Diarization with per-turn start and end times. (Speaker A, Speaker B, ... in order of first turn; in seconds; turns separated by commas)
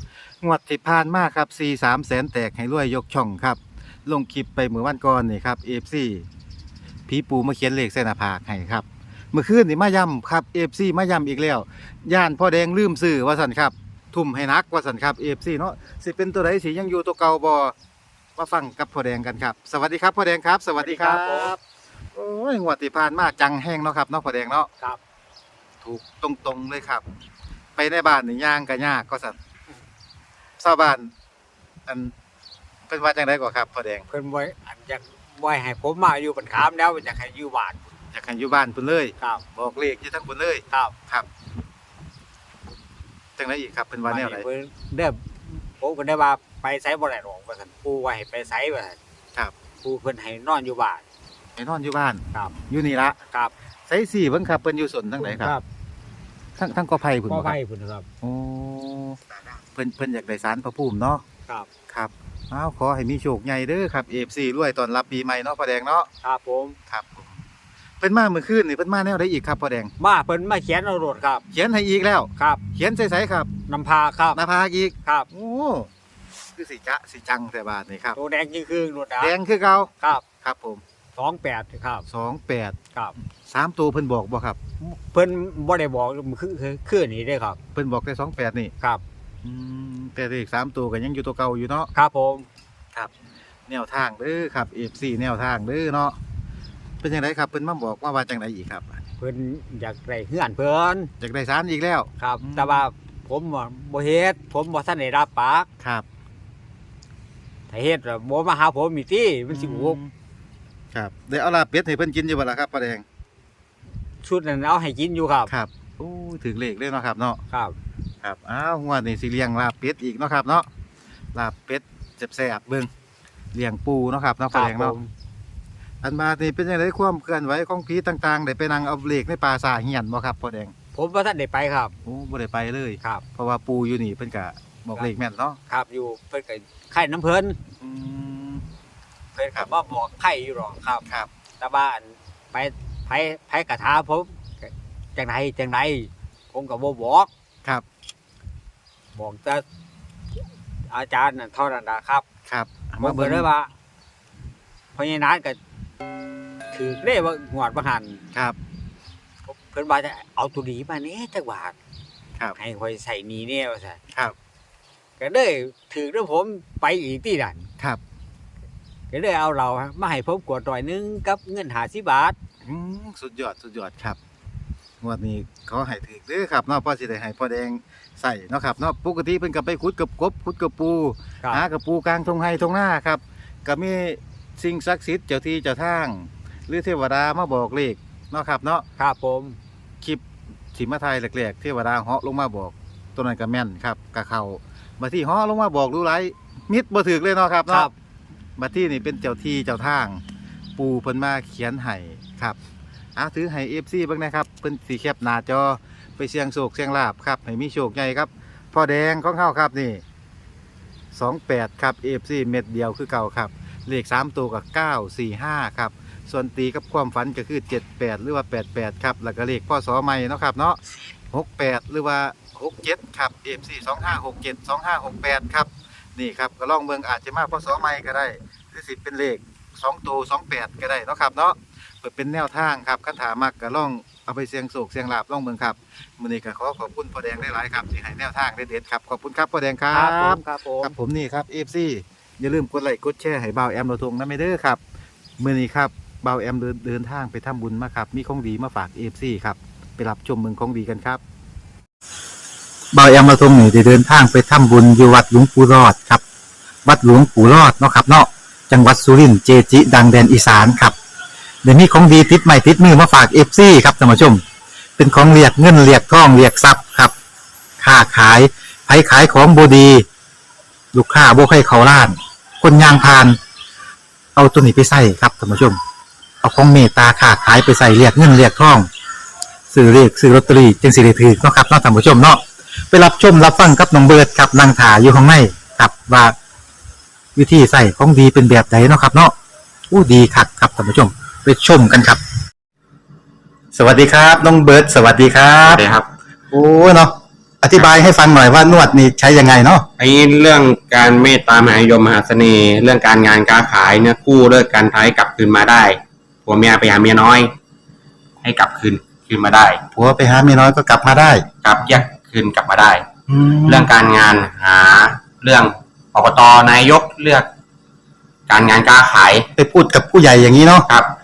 Speaker A: 0.4-6.3, Speaker A: 7.1-17.7, Speaker A: 18.4-21.5, Speaker B: 20.8-21.6, Speaker A: 22.1-24.7, Speaker A: 25.8-27.1, Speaker A: 27.8-29.4, Speaker A: 30.6-31.1, Speaker A: 31.9-32.1, Speaker A: 32.9-34.1, Speaker B: 34.1-37.8, Speaker A: 38.1-41.3, Speaker A: 43.4-44.5, Speaker B: 44.0-49.0, Speaker B: 49.8-51.0, Speaker A: 51.6-53.2, Speaker A: 53.9-55.5, Speaker B: 55.2-55.6, Speaker A: 56.6-57.6, Speaker B: 57.3-58.1, Speaker A: 58.2-61.2, Speaker A: 61.9-66.1, Speaker B: 66.2-66.8, Speaker A: 66.9-67.3, Speaker A: 68.0-69.9, Speaker B: 70.0-71.5, Speaker A: 71.5-73.5, Speaker B: 72.4-72.6, Speaker B: 73.7-74.4, Speaker A: 74.3-75.9, Speaker A: 76.6-78.2, Speaker B: 78.2-79.3, Speaker A: 79.2-80.8, Speaker B: 81.2-82.1, Speaker A: 82.1-82.8, Speaker A: 83.5-84.6, Speaker B: 84.8-87.6, Speaker A: 87.7-88.7, Speaker A: 89.4-91.9, Speaker B: 92.0-92.5, Speaker A: 93.7-96.2, Speaker A: 97.0-99.0, Speaker B: 99.2-101.1, Speaker A: 101.2-102.8, Speaker B: 102.2-105.7, Speaker B: 107.7-110.0, Speaker A: 109.5-110.1, Speaker A: 110.9-113.0, Speaker B: 114.2-115.5, Speaker A: 115.5-117.4, Speaker A: 118.2-120.7, Speaker A: 121.3-122.9, Speaker A: 123.5-125.0, Speaker B: 124.5-125.1, Speaker A: 126.0-130.7, Speaker B: 130.9-131.9, Speaker A: 132.0-135.6, Speaker B: 135.7-137.6, Speaker A: 137.8-138.6, Speaker B: 139.3-141.0, Speaker B: 141.6-147.3, Speaker B: 149.2-149.6, Speaker B: 150.9-152.2, Speaker A: 152.5-153.5, Speaker B: 153.0-153.7, Speaker B: 155.0-155.6, Speaker B: 156.7-158.2, Speaker B: 159.4-161.8, Speaker B: 162.6-164.0, Speaker B: 165.2-167.7, Speaker B: 169.1-172.4, Speaker A: 172.6-174.2, Speaker A: 175.0-188.8, Speaker B: 189.0-189.6, Speaker A: 190.7-197.9, Speaker A: 198.6-200.2, Speaker A: 200.8-202.6, Speaker A: 203.2-210.0, Speaker A: 211.1-244.8, Speaker B: 239.9-240.9, Speaker A: 245.4-251.2, Speaker A: 252.9-256.2, Speaker A: 256.9-261.0, Speaker A: 261.6-264.4, Speaker A: 265.0-267.1, Speaker A: 267.8-270.1, Speaker A: 270.9-273.4, Speaker A: 274.4-275.8, Speaker A: 276.4-278.9, Speaker A: 279.7-286.4, Speaker A: 287.4-289.3, Speaker A: 289.9-292.2, Speaker A: 293.7-295.8, Speaker C: 295.6-296.1, Speaker A: 296.5-299.9, Speaker C: 300.0-307.5, Speaker C: 308.4-309.8, Speaker A: 309.9-311.4, Speaker C: 311.6-313.1, Speaker A: 313.3-313.9, Speaker C: 313.6-317.5, Speaker C: 318.5-319.5, Speaker A: 319.6-320.9